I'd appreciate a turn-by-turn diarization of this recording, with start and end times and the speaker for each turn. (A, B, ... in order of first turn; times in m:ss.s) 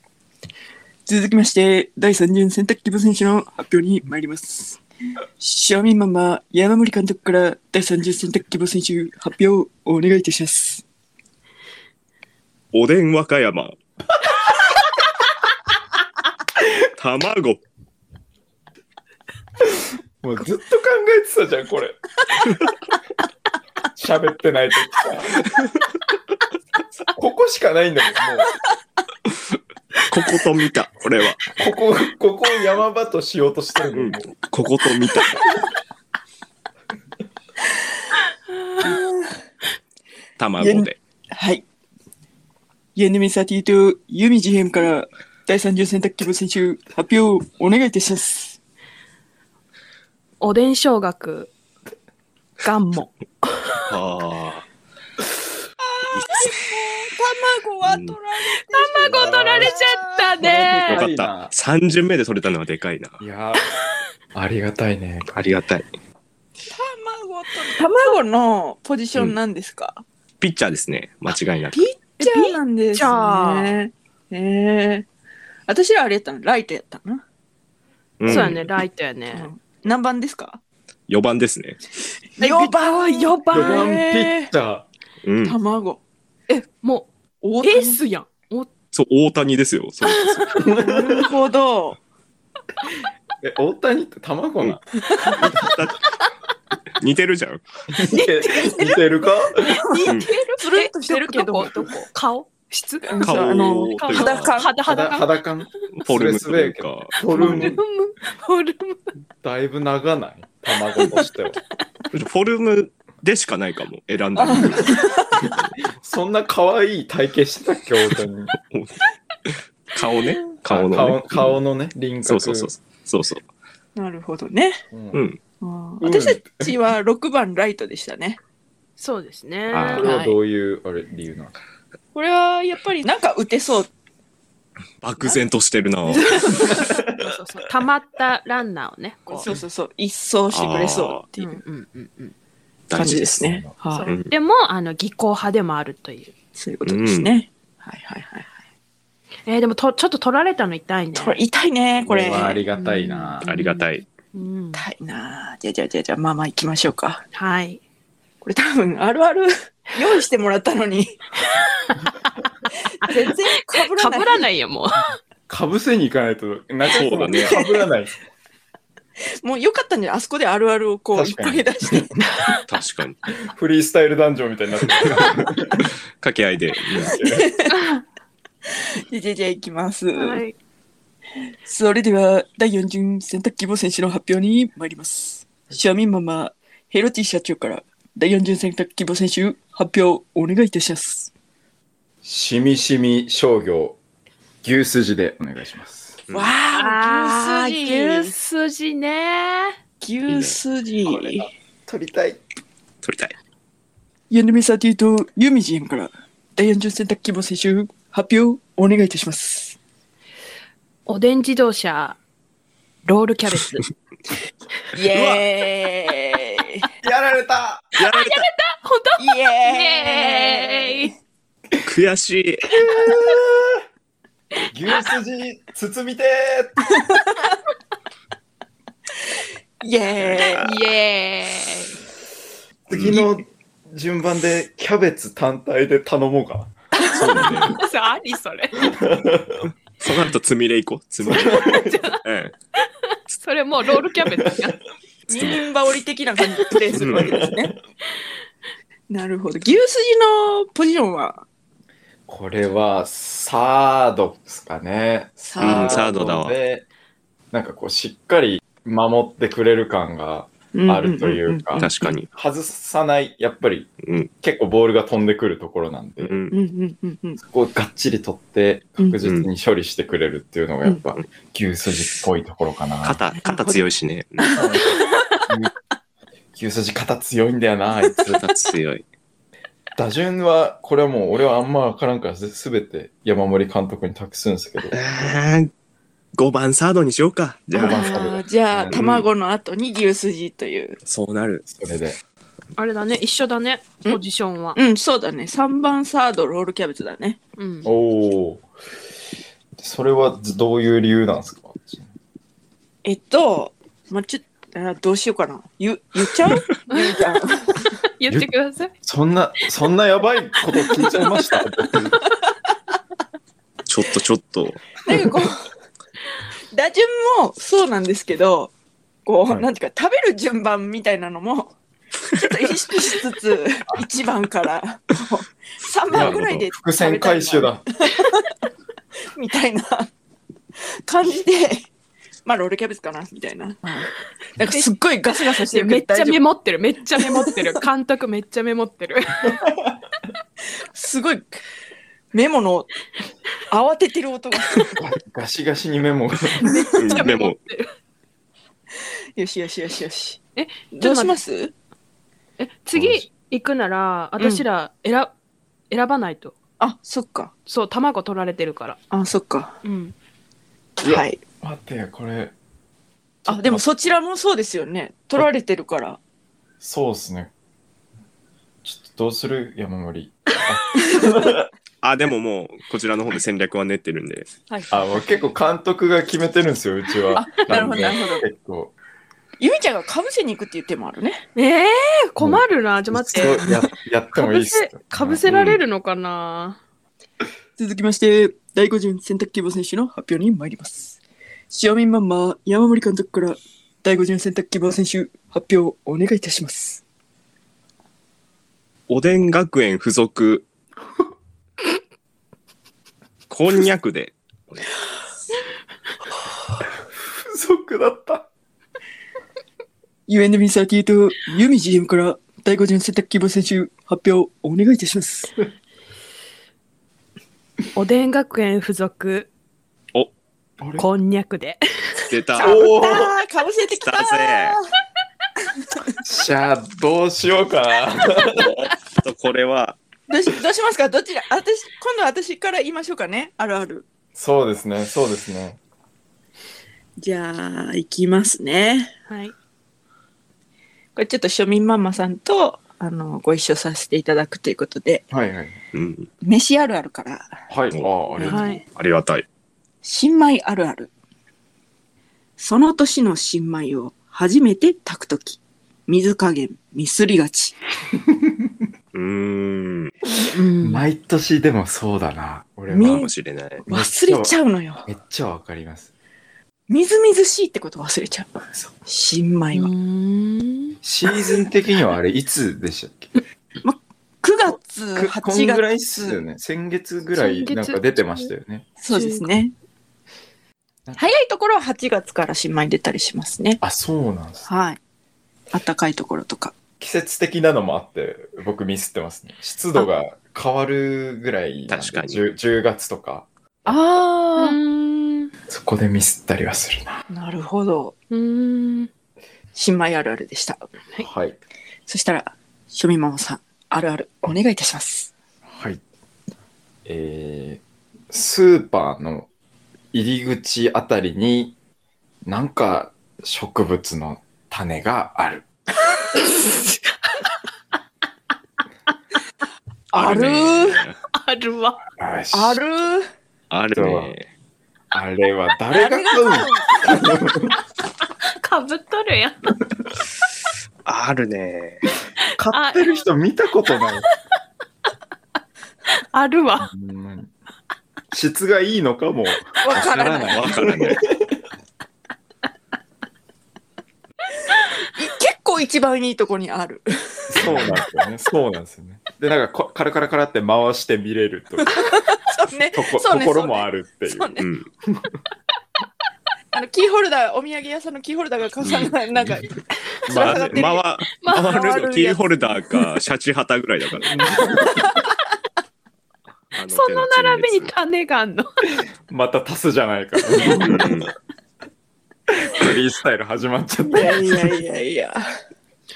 0:01.0-0:04.8 A
0:05.4-0:10.8 A
0:12.7-0:13.7 B
0:16.8-0:17.6 B
0:20.2-0:22.0 C
0:23.9-0:25.5 C
0:27.0-0:28.5 C
0:30.1-0:31.4 B
0:31.5-0:34.4 C
0:33.9-0:35.4 B
0:38.8-0:39.4 A
0:40.4-0:41.0 B
0:40.6-0:41.6 A
0:43.0-0:48.6 A
0:50.4-0:51.5 D
0:52.6-0:53.9 D
0:53.9-0:54.6 B
0:55.8-1:00.4 A
0:56.1-0:56.6 B
0:57.8-0:58.2 B
0:58.7-1:01.0 D
0:59.0-0:59.8 C
1:00.4-1:01.5 C
1:00.9-1:03.2 B
1:03.2-1:03.7 C
1:04.3-1:05.5 C
1:05.3-1:05.9 B
1:06.7-1:10.0 A
1:10.4-1:11.9 B
1:11.7-1:15.1 A
1:12.2-1:13.8 D
1:15.7-1:17.2 A
1:18.2-1:18.7 B
1:18.3-1:18.5 A
1:18.3-1:19.5 D
1:19.3-1:20.6 A
1:21.1-1:21.8 B
1:22.4-1:24.5 A
1:22.4-1:24.0 D
1:23.5-1:24.8 C
1:25.2-1:25.6 B
1:25.4-1:26.0 A
1:26.5-1:27.1 D
1:27.4-1:28.0 A
1:27.6-1:28.7 D
1:28.9-1:30.7 B
1:30.0-1:30.7 D
1:30.5-1:31.3 C
1:30.8-1:32.0 A
1:33.4-1:34.8 C
1:34.6-1:36.0 B
1:37.0-1:37.6 B
1:37.9-1:39.8 C
1:38.1-1:39.0 D
1:39.6-1:41.9 A
1:39.8-1:45.4 D
1:43.0-1:44.8 A
1:43.2-1:44.5 B
1:44.8-1:47.8 C
1:46.0-1:47.8 B
1:47.5-1:49.0 D
1:49.4-1:51.6 C
1:52.1-1:55.6 B
1:54.4-1:55.4 A
1:56.0-1:58.5 C
1:58.5-2:01.6 B
2:00.6-2:02.7 C
2:02.2-2:03.4 B
2:04.0-2:04.8 A
2:04.9-2:05.2 C
2:05.1-2:05.4 B
2:05.6-2:08.4 A
2:06.0-2:06.7 C
2:09.0-2:10.4 D
2:09.7-2:10.1 B
2:09.9-2:11.5 C
2:12.1-2:13.9 A
2:15.0-2:16.6 B
2:16.1-2:19.4 D
2:16.7-2:17.0 C
2:19.3-2:21.6 A
2:20.5-2:21.2 B
2:21.4-2:22.3 D
2:22.9-2:23.4 B
2:22.9-2:24.1 A
2:23.4-2:23.7 C
2:23.9-2:26.3 D
2:24.1-2:24.3 B
2:26.5-2:28.5 A
2:26.8-2:27.3 B
2:29.5-2:31.4 D
2:31.2-2:32.6 A
2:32.1-2:33.5 C
2:32.7-2:34.8 D
2:33.4-2:34.1 B
2:34.7-2:37.2 A
2:37.3-2:37.8 D
2:38.4-2:41.2 A
2:41.8-2:42.4 D
2:43.0-2:44.5 A
2:43.0-2:45.2 D
2:45.5-2:48.1 C
2:46.9-2:47.6 B
2:47.5-2:47.8 A
2:49.2-2:52.2 A
2:51.1-2:52.3 C
2:52.7-2:53.2 B
2:53.4-2:55.9 C
2:54.9-2:55.3 B
2:55.8-2:57.2 B
2:56.9-2:57.5 C
2:57.2-2:57.8 A
2:57.7-2:58.0 D
2:58.8-3:00.4 A
3:00.1-3:00.5 D
3:01.6-3:11.3 A
3:12.2-3:14.0 C
3:14.6-3:16.2 C
3:16.3-3:18.3 A
3:16.7-3:19.8 D
3:20.0-3:21.5 A
3:20.3-3:20.6 B
3:21.0-3:22.4 C
3:23.0-3:23.3 B
3:24.3-3:29.8 A
3:31.1-3:32.2 D
3:33.0-3:33.9 D
3:34.9-3:36.9 A
3:35.1-3:35.4 B
3:37.0-3:37.9 C
3:38.0-3:38.5 B
3:38.0-3:41.1 D
3:39.2-3:41.1 A
3:41.8-3:42.9 B
3:42.8-3:43.8 C
3:44.7-3:47.0 C
3:49.8-3:50.7 A
3:50.2-3:50.8 B
3:50.6-3:51.9 D
3:52.9-3:56.7 C
3:52.9-3:53.2 B
3:57.0-3:57.8 B
3:57.7-3:58.9 D
3:58.8-3:59.7 C
4:00.0-4:02.5 B
4:01.3-4:01.9 C
4:01.3-4:02.2 D
4:03.4-4:04.8 D
4:04.4-4:04.7 C
4:05.3-4:07.7 A
4:05.3-4:05.6 B
4:07.0-4:07.4 B
4:07.0-4:07.7 C
4:09.1-4:11.4 A
4:12.3-4:16.8 C
4:15.4-4:16.1 A
4:15.6-4:16.6 B
4:17.5-4:26.4 C
4:20.7-4:22.1 A
4:21.8-4:22.3 B
4:24.0-4:24.3 B
4:26.2-4:26.5 B
4:26.5-4:27.4 A
4:27.4-4:33.2 C
4:33.0-4:34.6 B
4:33.5-4:33.8 A
4:34.5-4:35.7 C
4:36.5-4:38.4 C
4:38.3-4:39.0 B
4:40.0-4:44.9 C
4:44.9-4:45.7 B
4:46.3-4:48.2 B
4:47.7-4:51.0 A
4:47.8-4:49.0 C
4:48.9-4:49.2 B
4:51.0-4:51.6 B
4:51.7-4:52.2 C
4:52.8-4:54.8 D
4:54.7-4:57.4 A
4:57.6-4:57.9 D
4:57.8-4:58.6 C
4:59.8-5:02.1 C
5:03.0-5:07.8 A
5:06.9-5:07.2 D
5:08.2-5:08.9 D
5:09.0-5:12.2 C
5:11.1-5:11.4 D
5:13.8-5:14.8 B
5:15.0-5:15.6 A
5:16.7-5:18.7 A
5:19.2-5:21.7 A
5:22.3-5:28.4 A
5:26.1-5:26.6 B
5:26.1-5:27.9 C
5:29.3-5:30.1 A
5:31.0-5:31.9 A
5:32.4-5:36.4 A
5:35.6-5:39.6 D
5:37.2-5:37.7 A
5:39.4-5:39.9 C
5:40.9-5:41.6 A
5:42.3-5:42.9 A
5:43.7-5:45.0 A
5:45.0-5:46.9 C
5:46.6-5:47.9 D
5:46.9-5:47.6 B
5:49.4-5:50.4 A
5:50.6-5:51.4 D
5:50.9-5:51.7 A
5:52.6-5:55.3 D
5:52.9-5:53.3 C
5:54.4-5:54.6 A
5:55.9-5:56.5 D
5:56.8-5:57.5 A
5:57.6-5:59.0 D
5:59.1-5:59.8 A
5:59.8-6:00.1 D
6:01.0-6:01.4 A
6:01.0-6:02.5 C
6:03.4-6:03.8 C
6:03.5-6:06.2 A
6:06.8-6:07.5 C
6:08.8-6:11.7 C
6:12.0-6:14.5 B
6:14.7-6:15.2 A
6:14.9-6:18.9 C
6:17.3-6:18.4 A
6:19.6-6:21.4 A
6:21.5-6:26.8 D
6:22.4-6:25.8 C
6:25.4-6:25.8 B
6:27.8-6:31.2 A
6:31.7-6:37.0 A
6:39.1-6:40.7 B
6:43.5-6:44.9 B
6:47.2-6:48.5 C
6:50.3-6:55.5 A
6:57.9-6:59.5 D
7:00.8-7:01.0 C
7:01.0-7:02.2 D
7:02.3-7:02.8 B
7:02.6-7:04.8 A
7:02.6-7:03.3 C
7:04.0-7:04.8 B
7:06.2-7:08.7 C
7:08.5-7:10.0 B
7:10.3-7:14.1 A
7:14.3-7:15.8 C
7:17.2-7:19.1 A
7:19.3-7:19.5 D
7:21.2-7:25.2 A
7:25.3-7:25.8 C
7:25.9-7:26.3 B
7:26.4-7:27.6 A
7:27.7-7:28.7 C
7:28.3-7:28.6 A
7:28.4-7:28.8 D
7:28.9-7:29.4 B
7:30.0-7:31.1 A
7:32.6-7:37.7 A
7:38.3-7:38.7 C
7:39.1-7:40.1 B
7:40.5-7:41.0 D
7:40.8-7:43.3 C
7:42.9-7:43.3 A
7:43.0-7:43.8 B
7:43.8-7:45.1 A
7:43.9-7:44.5 C
7:45.0-7:46.1 C
7:46.9-7:49.9 A
7:49.7-7:51.0 D
7:51.0-7:53.3 C
7:53.8-7:56.4 A
7:55.2-7:58.9 C
7:57.4-7:58.5 D
7:59.0-7:59.7 A
7:59.1-7:59.5 D
8:01.2-8:03.8 A
8:03.8-8:04.7 C
8:04.7-8:05.0 A
8:05.7-8:06.7 A
8:07.0-8:14.0 C
8:11.9-8:12.4 B
8:13.8-8:14.8 A
8:14.6-8:15.5 D
8:15.7-8:17.2 C
8:17.3-8:18.1 A
8:18.3-8:19.1 D
8:19.7-8:20.9 A
8:21.2-8:21.6 C
8:22.1-8:25.3 A
8:25.7-8:26.0 C
8:27.0-8:29.5 C
8:30.1-8:31.7 C
8:32.4-8:35.6 C
8:40.1-8:41.0 A
8:40.1-8:41.2 B
8:41.3-8:42.0 D
8:42.2-8:42.8 C
8:42.5-8:43.3 A
8:43.7-8:44.4 B
8:43.9-8:44.3 C
8:45.1-8:47.8 C
8:45.9-8:47.2 A
8:48.4-8:49.7 D
8:51.0-8:52.1 B
8:52.6-8:54.3 C
8:52.7-8:53.2 D
8:56.3-8:56.9 D
8:56.8-8:57.5 C
8:58.3-9:01.5 C
8:59.8-9:00.8 A
9:00.5-9:01.2 B
9:05.1-9:07.9 A
9:07.5-9:12.2 C
9:07.6-9:08.0 B
9:12.2-9:14.7 A
9:12.9-9:15.4 C
9:14.6-9:14.9 B
9:16.7-9:19.7 A
9:18.8-9:19.1 B
9:20.2-9:21.0 A
9:20.3-9:20.8 C
9:20.3-9:24.7 B
9:21.4-9:22.4 D
9:24.2-9:25.1 C
9:24.6-9:25.1 D
9:26.7-9:27.9 B
9:26.9-9:28.8 D
9:29.3-9:31.1 C
9:30.7-9:31.3 B
9:32.5-9:34.8 C
9:34.0-9:35.5 A